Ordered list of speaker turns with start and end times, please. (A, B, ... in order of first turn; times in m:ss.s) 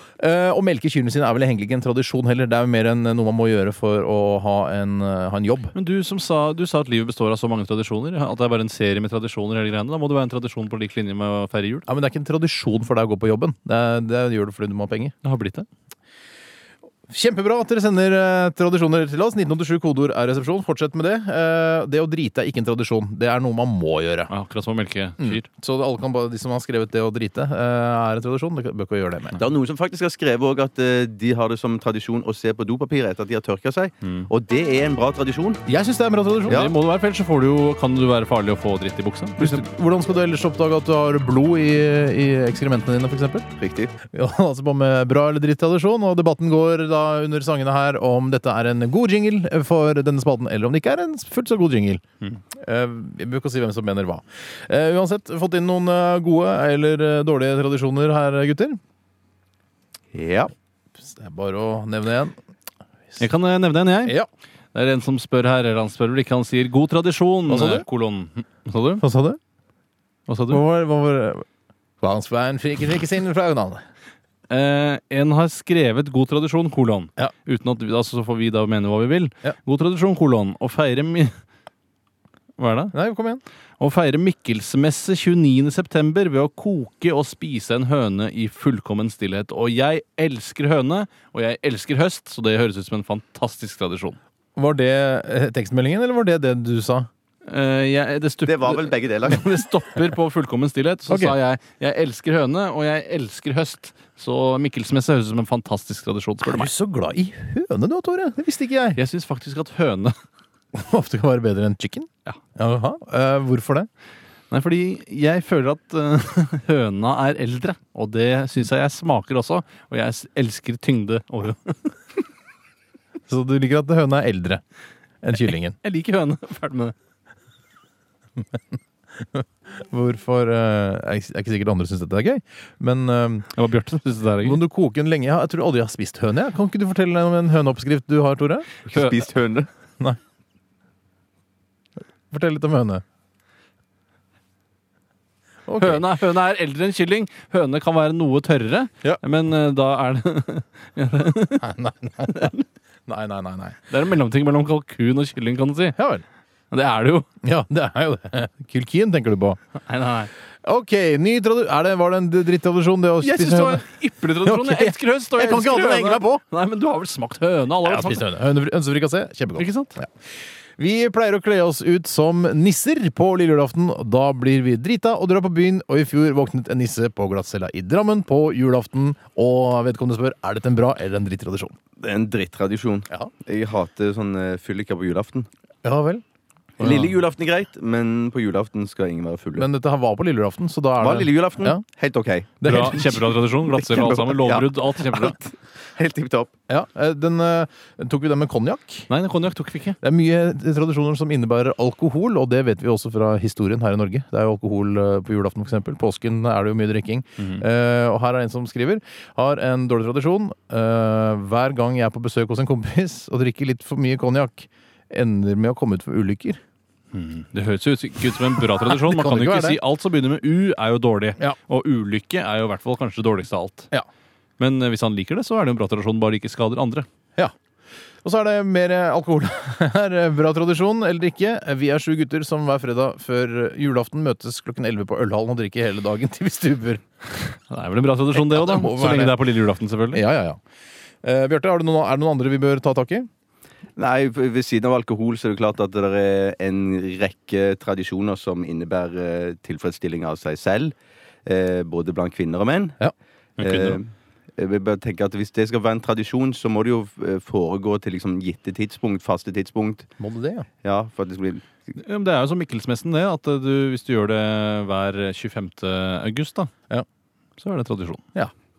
0:00.2-0:05.7 A
0:05.7-0:11.8 B
0:11.9-0:15.1 A
0:15.2-0:15.7 B
0:17.1-0:24.3 A
0:24.3-0:25.4 B
0:25.2-0:29.4 A
0:29.4-0:35.6 C
0:35.7-0:36.7 A
0:36.5-0:39.6 B
0:39.4-0:43.5 A
0:43.6-0:43.9 C
0:44.1-0:52.0 A
0:52.5-0:58.8 A
1:00.1-1:00.5 C
1:01.0-1:02.3 A
1:03.2-1:04.1 B
1:04.7-1:09.0 B
1:07.5-1:07.8 A
1:09.0-1:09.4 A
1:10.3-1:10.6 B
1:10.5-1:11.4 A
1:12.0-1:13.8 A
1:14.5-1:21.3 B
1:22.6-1:22.9 B
1:22.9-1:23.4 A
1:23.8-1:34.2 B
1:34.6-1:37.1 A
1:37.4-1:46.7 B
1:38.4-1:39.4 C
1:41.1-1:41.4 A
1:46.4-1:49.0 A
1:49.0-1:50.1 B
1:50.7-1:53.9 A
1:54.5-2:01.9 B
2:03.3-2:04.6 A
2:05.2-2:05.8 A
2:05.8-2:06.9 B
2:09.3-2:13.5 A
2:13.5-2:14.6 B
2:14.4-2:18.8 A
2:18.9-2:19.7 C
2:22.3-2:23.0 A
2:25.7-2:26.0 A
2:25.8-2:32.6 B
2:31.6-2:32.5 A
2:33.1-2:33.8 A
2:33.9-2:36.0 B
2:36.0-2:36.2 A
2:36.7-2:37.3 B
2:37.4-2:39.6 A
2:39.9-2:40.3 B
2:40.6-2:46.4 A
2:43.2-2:48.2 B
2:47.8-2:50.1 A
2:49.6-2:50.0 B
2:50.8-3:01.8 A
3:02.0-3:05.5 C
3:05.8-3:06.2 A
3:06.8-3:09.6 C
3:06.8-3:07.2 A
3:09.6-3:11.8 A
3:11.0-3:16.5 C
3:12.6-3:13.2 A
3:12.6-3:15.4 B
3:16.7-3:19.1 A
3:19.1-3:20.0 B
3:20.0-3:36.6 A
3:37.1-3:43.9 B
3:38.8-3:39.8 A
3:44.6-3:47.1 B
3:48.2-3:57.0 A
3:57.7-4:00.2 B
3:58.3-3:59.4 A
4:00.1-4:00.6 A
4:01.2-4:03.3 A
4:04.0-4:13.0 C
4:13.6-4:14.0 B
4:13.6-4:20.1 C
4:20.2-4:20.7 A
4:20.8-4:21.7 C
4:22.0-4:26.7 B
4:27.6-4:28.2 B